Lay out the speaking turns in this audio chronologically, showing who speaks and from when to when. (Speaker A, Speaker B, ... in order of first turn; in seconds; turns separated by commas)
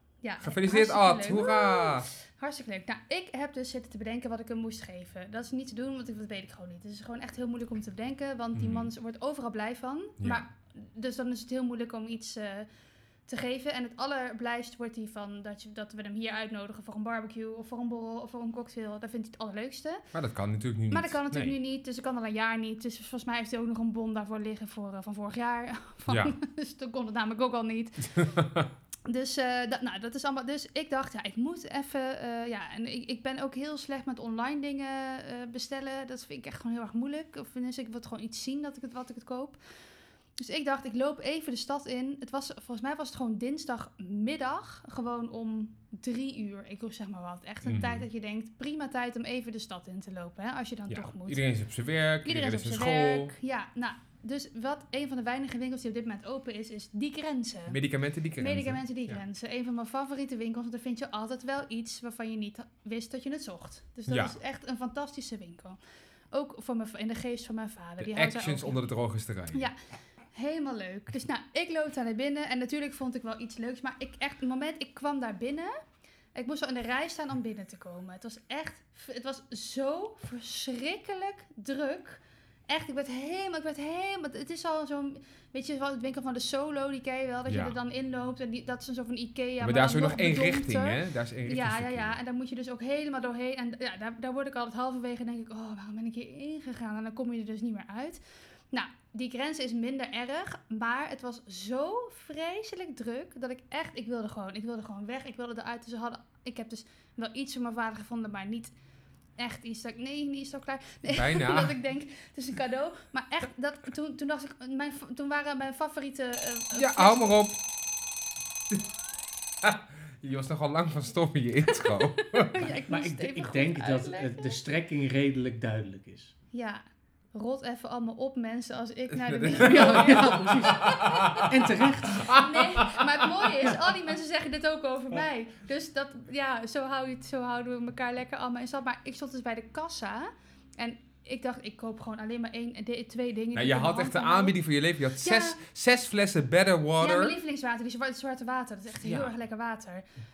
Speaker A: 0.2-12.7, Speaker B: 0.4-2.1, Speaker B: 8.5-8.9, Speaker B: 10.2-10.4, Speaker A: 13.3-20.0, Speaker B: 20.1-21.5, Speaker A: 20.9-28.3, Speaker B: 26.1-26.3, Speaker B: 28.2-28.7, Speaker A: 29.1-39.6, Speaker A: 40.4-51.4, Speaker B: 47.6-48.0, Speaker B: 50.9-53.3, Speaker A: 52.2-57.8, Speaker B: 57.7-59.2, Speaker A: 58.4-65.8, Speaker B: 64.1-64.3, Speaker A: 66.3-68.8, Speaker B: 68.0-69.7, Speaker A: 70.3-75.8, Speaker A: 76.3-108.7, Speaker B: 87.5-87.8, Speaker B: 89.6-92.2, Speaker A: 109.4-117.4, Speaker B: 111.1-111.7, Speaker B: 116.7-117.6, Speaker B: 119.6-122.7, Speaker A: 121.9-124.6, Speaker C: 122.9-126.3, Speaker A: 126.5-131.5, Speaker B: 129.2-133.8, Speaker C: 129.6-132.3, Speaker A: 132.3-144.6, Speaker B: 143.5-147.4, Speaker A: 145.2-145.6, Speaker A: 147.0-150.1, Speaker B: 149.0-149.3